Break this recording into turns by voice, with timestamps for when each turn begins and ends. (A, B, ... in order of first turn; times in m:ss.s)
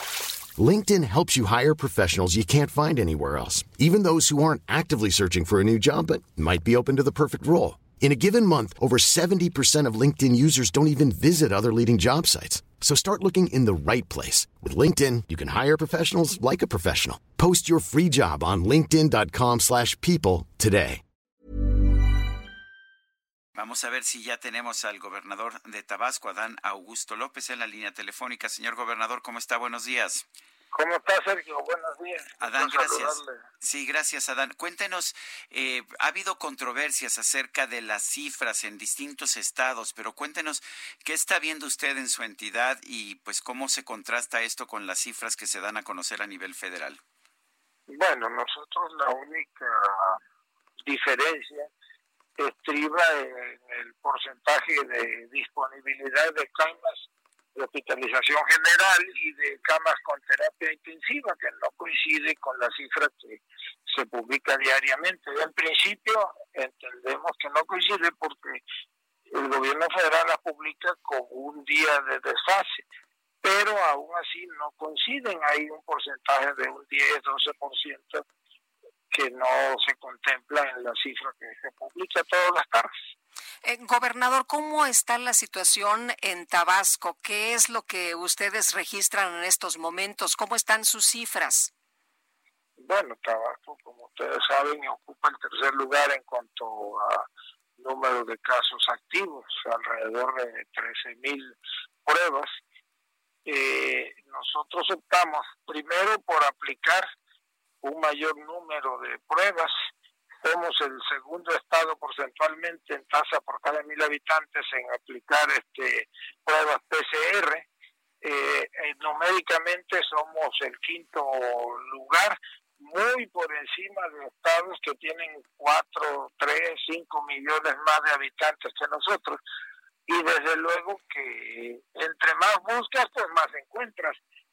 0:00.6-0:21.0 A
0:23.6-0:30.3 B
0:30.7-0:33.4 C
0:32.4-0:47.0 B
0:47.9-0:50.2 C
0:50.8-0:51.7 C
0:52.4-0:57.0 C
0:57.5-1:08.6 C
1:09.3-1:12.8 C
1:13.4-1:18.2 C
1:19.1-1:22.9 C
1:23.6-1:31.7 D
1:32.8-1:37.2 C
1:37.8-1:42.5 C
1:43.4-1:47.1 C
1:47.8-1:49.7 C
1:50.4-1:57.7 C
1:58.2-2:09.4 C
2:10.1-2:14.2 C